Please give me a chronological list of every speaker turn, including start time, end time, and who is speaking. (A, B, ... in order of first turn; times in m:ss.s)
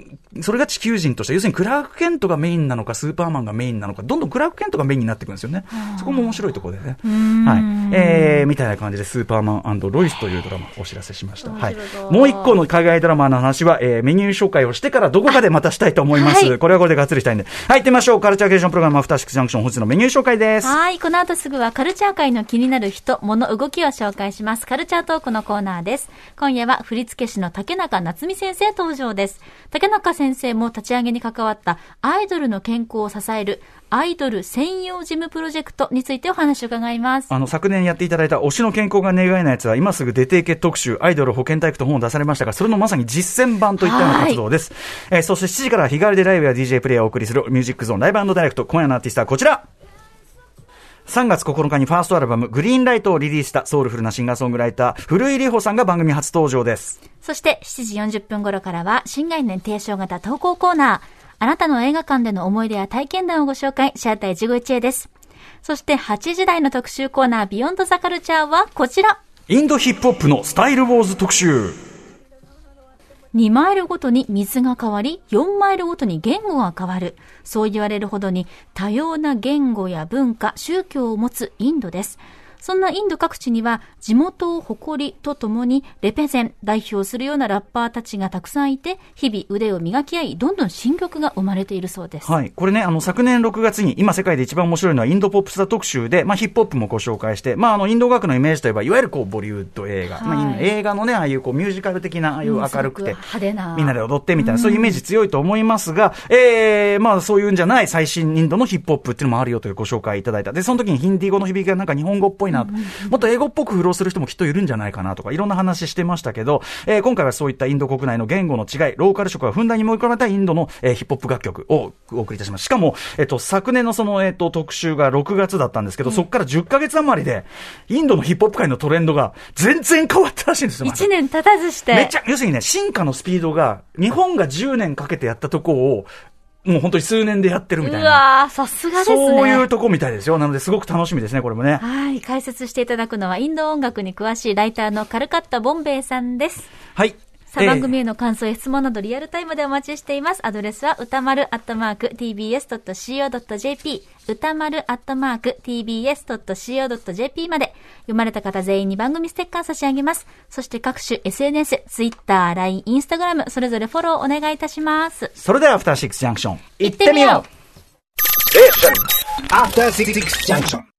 0:00.3-0:20.8 A
0:05.7-0:06.4 B
0:07.0-0:08.5 B
0:11.4-0:12.6 B
0:16.1-0:16.6 B
0:20.6-0:37.3 B
0:37.3-0:49.6 A
0:43.8-0:44.4 B
0:51.1-0:57.0 A
0:57.2-1:05.1 B
1:05.6-1:09.2 B
1:09.5-1:11.8 A
1:13.3-1:32.3 B
1:32.2-1:43.2 A
1:40.2-1:40.7 B
1:42.4-1:45.0 B
1:43.7-2:11.1 A
1:52.5-1:53.1 B
2:10.8-2:12.1 B
2:11.9-2:16.1 A
2:16.6-2:18.2 A
2:17.8-2:19.7 B
2:19.0-2:21.8 A
2:21.8-2:26.7 B
2:27.0-2:27.9 A
2:27.5-2:45.3 B
2:45.4-2:47.4 A
2:46.8-2:47.4 B
2:48.5-2:50.8 C